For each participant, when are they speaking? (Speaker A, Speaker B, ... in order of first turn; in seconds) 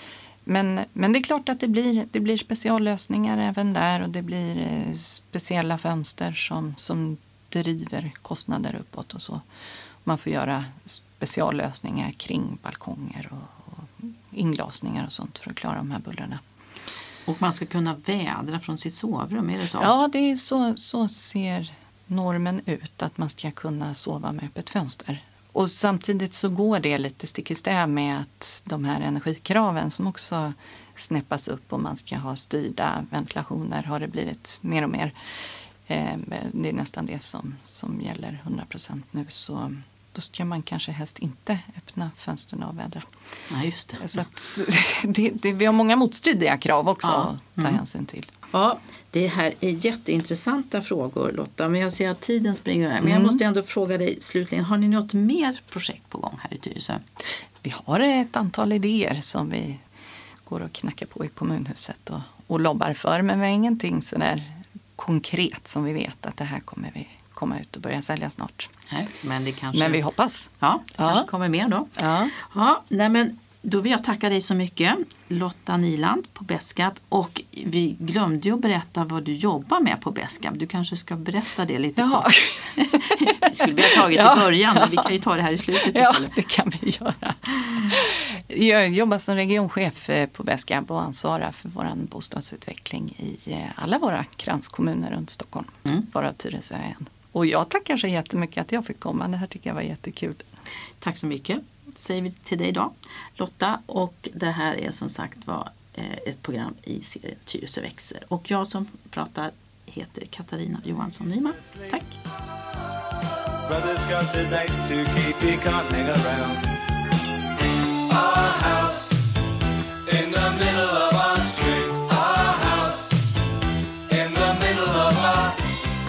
Speaker A: 0.5-9.4, 10.0-16.4, 19.8-35.1, 35.9-43.1, 44.0-48.3, 53.0-53.4, 57.6-59.8, 60.5-68.7, 69.7-71.2, 72.0-72.3, 82.0-85.1, 85.7-100.4
Speaker B: 17.3-19.9, 43.5-44.0, 47.0-47.8, 48.5-57.0, 68.9-70.0, 70.6-86.3, 101.0-112.2
Speaker C: 111.6-112.0, 113.6-116.8, 117.9-119.3, 120.0-123.2, 124.1-125.6